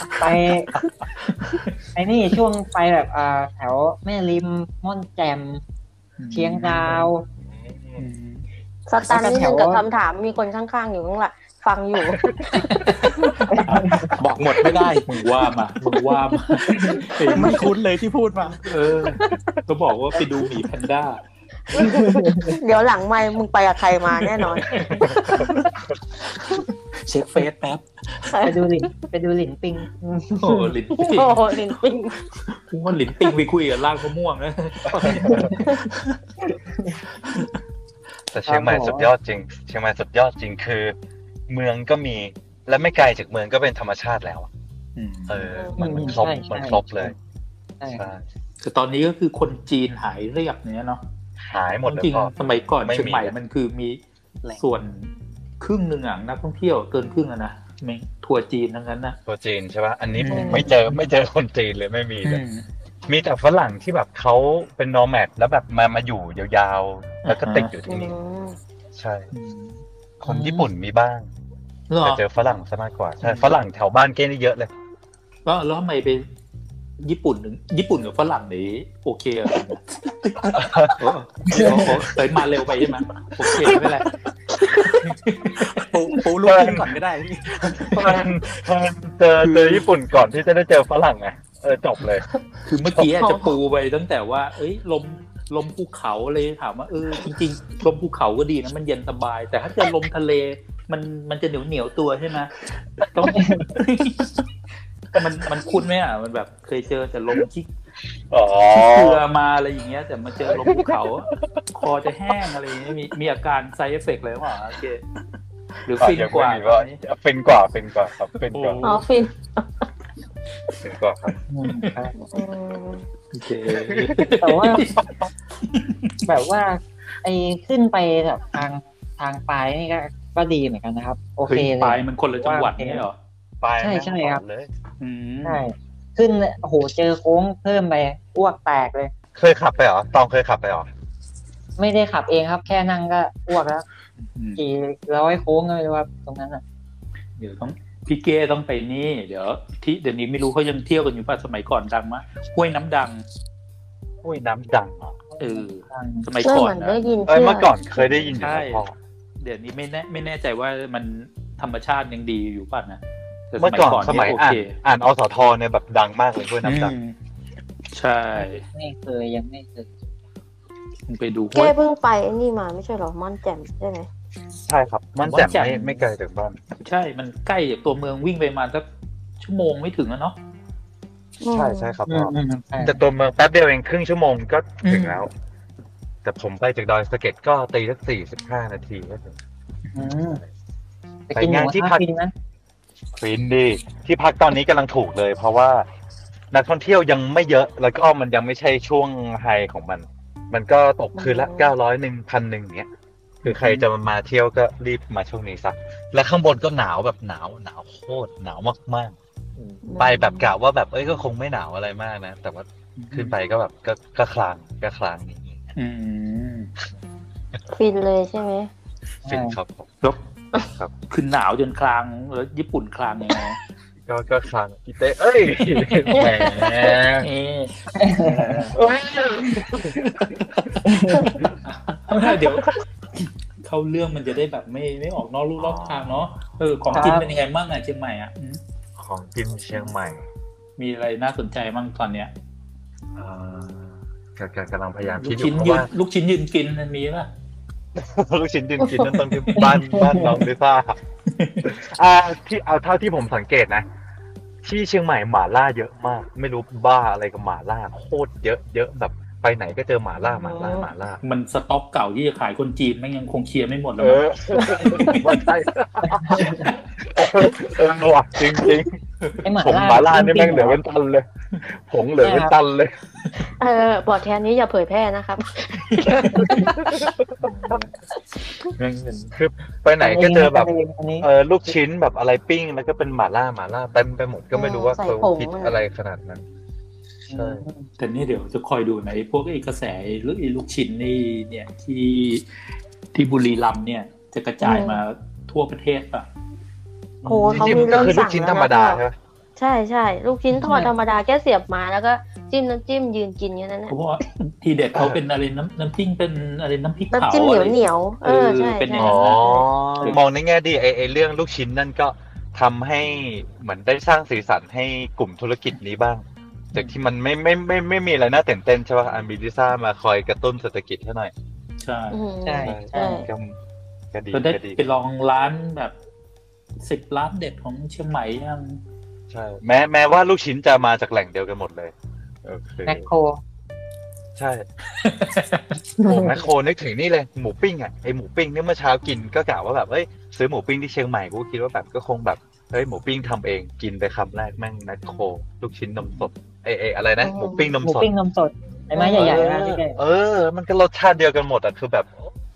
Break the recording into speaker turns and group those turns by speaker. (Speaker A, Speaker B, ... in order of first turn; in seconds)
Speaker A: 0.2-0.7, 1.9-5.6, 6.3-7.3, 9.0-9.8, 13.5-14.1, 21.8-22.6, 28.4-30.7, 35.1-35.6, 36.5-37.0, 38.5-39.1, 45.8-47.1, 47.8-48.1, 81.5-81.8, 103.3-103.7, 121.5-122.1, 124.4-124.9, 126.2-133.1, 133.8-134.4, 135.4-139.1, 141.8-143.8, 144.6-146.6, 155.3-156.3, 168.3-170.1, 182.1-183.0, 189.9-190.4, 191.3-192.3, 219.2-219.6, 227.9-228.7, 230.8-231.3, 236.9-237.3, 249.6-250.3, 266.2-266.6, 269.4-270.8, 272.2-272.5, 280.0-281.3, 287.3-287.9, 322.4-323.2, 332.9-333.4, 336.0-336.4, 347.8-350.0
Speaker B: 1.4-1.7, 6.2-7.1, 8.0-8.4, 13.6-17.6, 18.6-21.2, 24.6-25.5, 30.4-31.7, 32.5-36.1, 45.0-45.5, 48.6-51.0, 51.8-59.2, 60.1-60.9, 62.2-62.6, 67.2-67.7, 69.3-70.5, 71.9-72.2, 73.2-73.5, 75.4-76.2, 77.0-84.1, 84.8-85.8, 89.4-89.8, 92.6-104.3, 105.1-107.7, 108.7-115.0, 115.8-117.0, 118.5-119.1, 123.3-125.0, 125.7-126.1, 131.5-133.1, 135.0-135.6, 144.2-144.6, 147.4-153.2, 155.4-157.0, 158.4-158.8, 159.4-163.0, 163.5-164.8, 166.6-167.1, 167.9-168.6, 171.1-171.7, 175.2-176.1, 176.8-178.8, 179.4-180.3, 184.8-185.2, 203.4-203.8, 209.6-209.8, 213.0-213.4, 215.8-216.7, 221.1-223.6, 227.2-228.8, 230.1-232.8, 233.6-238.6, 240.8-242.3, 245.2-247.3, 249.4-250.2, 251.3-251.7, 261.2-265.4, 277.4-277.9, 278.6-279.4, 288.0-292.4, 293.1-296.3, 297.5-298.1, 300.5-300.9, 303.9-310.2, 321.8-322.2, 324.3-325.9, 326.8-328.8, 335.0-335.6
Speaker C: 7.4-8.1, 34.9-35.5, 38.3-41.0, 41.5-44.5, 45.3-47.1, 48.0-48.2, 51.4-53.3, 59.2-62.4, 63.1-68.2, 68.9-69.3, 70.2-71.3, 72.0-74.7, 80.5-81.0, 81.5-81.8, 86.4-86.9, 87.8-92.2, 108.3-109.2, 110.4-111.4, 116.0-119.0, 120.7-121.4, 123.9-124.2, 125.0-125.3, 133.6-134.7, 139.3-140.9, 154.2-155.2, 157.2-158.9, 163.6-166.9, 174.7-176.6, 181.5-185.3, 186.2-189.4, 190.1-190.5, 191.3-192.0, 193.2-195.8, 196.5-202.9, 203.4-209.2, 210.0-215.8, 219.2-219.9, 220.6-220.9, 224.1-227.3, 228.7-230.1, 235.6-236.2, 236.9-237.2, 239.0-240.2, 243.2-245.9, 247.9-251.0, 251.6-253.8, 254.6-261.2, 264.0-268.9, 269.6-273.0, 276.4-277.3, 279.3-280.7, 281.2-286.4, 287.3-287.6, 297.2-299.2, 308.9-321.3, 322.6-323.6, 324.1-324.8, 329.3-333.1, 334.4-334.7, 336.0-348.1, 349.1-352.1
Speaker D: 8.9-13.4, 17.3-17.6, 21.7-25.1, 28.2-28.9, 31.0-32.3, 35.6-35.9, 45.5-46.1, 60.3-60.7, 67.9-68.6, 93.1-93.6, 118.8-119.7, 122.2-123.1, 156.4-158.4, 171.5-174.1, 181.4-182.0, 201.2-201.7, 209.8-210.5, 217.7-218.7, 226.1-226.9, 260.3-260.9, 273.4-277.1, 284.5-285.8, 294.6-295.0, 297.2-299.0, 299.6-303.9, 307.1-309.6, 322.1-323.3, 347.2-347.7
Speaker E: 14.1-15.1, 16.9-19.4, 27.1-27.8, 85.6-88.1